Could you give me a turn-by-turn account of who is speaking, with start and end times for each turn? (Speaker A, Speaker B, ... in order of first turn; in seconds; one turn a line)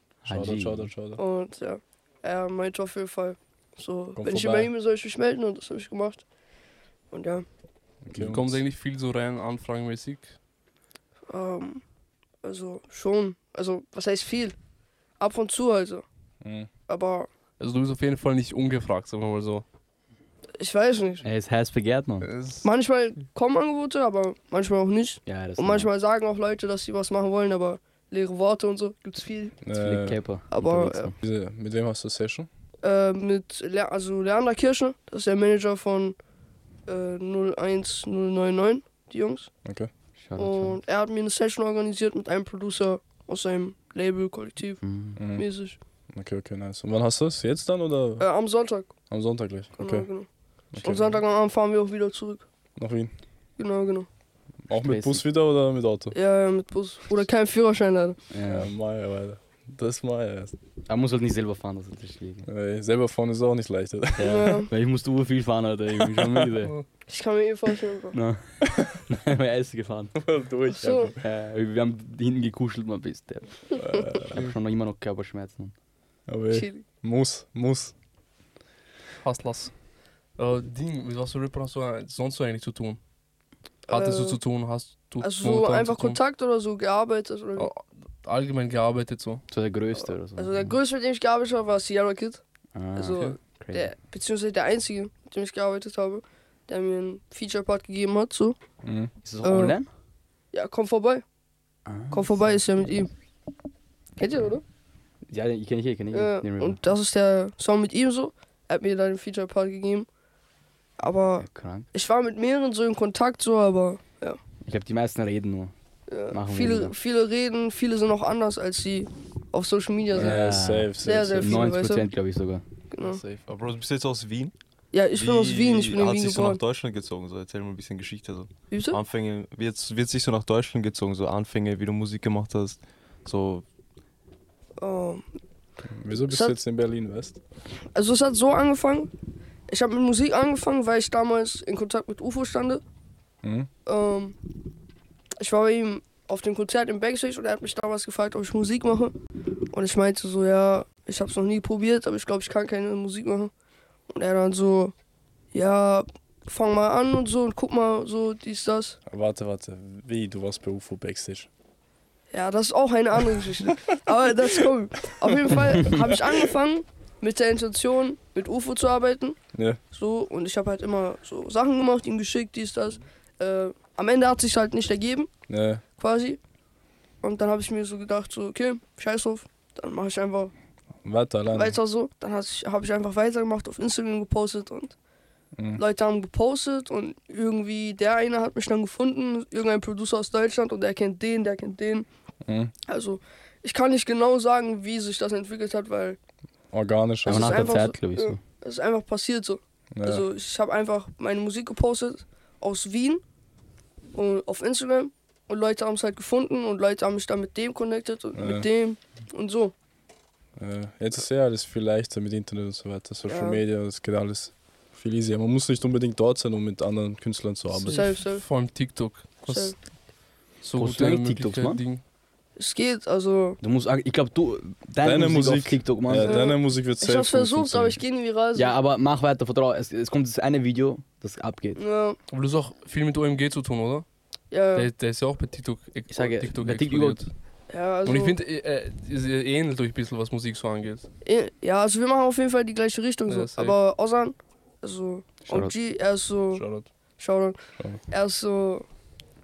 Speaker A: 0.2-1.2
Speaker B: 0.2-0.9
Speaker C: 1.1-6.2
Speaker A: 4.2-4.7
Speaker C: 7.1-7.4
Speaker A: 8.0-8.6
Speaker D: 8.2-10.3
Speaker C: 11.3-11.8
Speaker C: 12.4-14.6
Speaker C: 15.2-16.0
Speaker A: 16.4-16.7
Speaker C: 16.9-17.3
Speaker D: 17.6-19.6
Speaker C: 20.6-21.2
Speaker B: 21.2-22.3
Speaker D: 22.2-22.7
Speaker C: 22.6-29.6
Speaker B: 25.2-25.9
Speaker A: 29.6-30.2
Speaker B: 29.7-31.1
Speaker C: 30.5-31.1
Speaker A: 31.2-32.5
Speaker C: 32.8-36.2
Speaker C: 36.9-39.5
Speaker A: 39.6-39.9
Speaker B: 40.1-40.8
Speaker C: 40.4-45.8
Speaker B: 44.8-45.2
Speaker A: 45.1-45.5
Speaker A: 46.1-48.3
Speaker C: 48.2-48.9
Speaker A: 49.1-50.1
Speaker C: 49.8-52.5
Speaker A: 50.7-51.2
Speaker A: 52.8-53.1
Speaker C: 53.6-54.1
Speaker A: 54.7-56.1
Speaker B: 54.7-55.2
Speaker C: 56.1-58.2
Speaker B: 58.3-58.7
Speaker A: 58.4-60.5
Speaker B: 60.9-62.5
Speaker A: 62.4-64.5
Speaker B: 64.2-66.7
Speaker C: 64.2-64.7
Speaker A: 66.0-66.5
Speaker C: 67.1-68.2
Speaker B: 68.1-70.2
Speaker A: 70.2-71.2
Speaker C: 70.7-71.1
Speaker B: 71.2-75.7
Speaker A: 73.8-74.4
Speaker A: 76.3-77.9
Speaker C: 76.5-76.8
Speaker D: 79.2-79.7
Speaker D: 80.4-83.0
Speaker C: 83.9-84.4
Speaker D: 83.9-86.2
Speaker C: 85.2-87.7
Speaker D: 87.6-89.4
Speaker B: 89.5-90.7
Speaker C: 89.9-92.4
Speaker B: 92.7-93.9
Speaker C: 92.9-98.6
Speaker A: 98.8-99.1
Speaker B: 99.2-99.9
Speaker C: 99.4-99.8
Speaker C: 100.5-101.2
Speaker B: 101.8-102.3
Speaker C: 102.1-103.1
Speaker C: 104.2-104.6
Speaker B: 105.3-106.8
Speaker C: 106.1-110.1
Speaker C: 111.0-114.4
Speaker B: 111.4-111.9
Speaker B: 114.6-115.7
Speaker C: 116.1-120.4
Speaker B: 116.3-116.9
Speaker A: 120.1-121.8
Speaker B: 120.1-122.6
Speaker C: 121.0-122.1
Speaker C: 122.9-123.2
Speaker E: 123.0-124.5
Speaker C: 124.9-126.6
Speaker E: 125.1-133.6
Speaker C: 128.7-129.0
Speaker C: 134.8-135.2
Speaker A: 135.8-137.4
Speaker C: 136.2-136.6
Speaker C: 137.9-139.1
Speaker C: 139.7-142.8
Speaker A: 143.4-143.7
Speaker C: 143.8-144.3
Speaker C: 145.4-149.1
Speaker C: 149.7-153.5
Speaker C: 154.1-154.9
Speaker C: 155.5-159.0
Speaker A: 159.1-161.5
Speaker C: 162.3-169.4
Speaker A: 169.5-169.8
Speaker C: 169.9-175.3
Speaker A: 175.5-175.8
Speaker C: 176.0-176.4
Speaker C: 177.2-180.5
Speaker A: 181.0-181.8
Speaker C: 181.5-184.9
Speaker A: 185.5-185.8
Speaker C: 185.8-192.1
Speaker A: 192.4-192.7
Speaker C: 192.9-196.2
Speaker A: 196.7-197.8
Speaker B: 197.2-198.4
Speaker C: 197.2-203.2
Speaker A: 199.9-200.2
Speaker C: 204.1-209.7
Speaker A: 208.3-208.7
Speaker A: 210.6-218.1
Speaker C: 213.3-213.6
Speaker D: 217.8-219.8
Speaker C: 217.9-218.4
Speaker C: 219.5-219.8
Speaker D: 220.6-222.0
Speaker B: 220.8-221.8
Speaker C: 222.6-223.6
Speaker B: 223.6-226.5
Speaker A: 225.0-228.0
Speaker C: 226.2-228.7
Speaker B: 228.5-231.8
Speaker C: 231.8-232.2
Speaker D: 232.3-234.0
Speaker C: 234.5-234.9
Speaker D: 234.7-237.3
Speaker B: 236.1-237.2
Speaker C: 237.7-238.4
Speaker D: 238.0-241.1
Speaker C: 241.2-246.6
Speaker D: 243.3-243.7
Speaker B: 245.4-245.7
Speaker D: 246.6-246.8
Speaker C: 247.2-248.8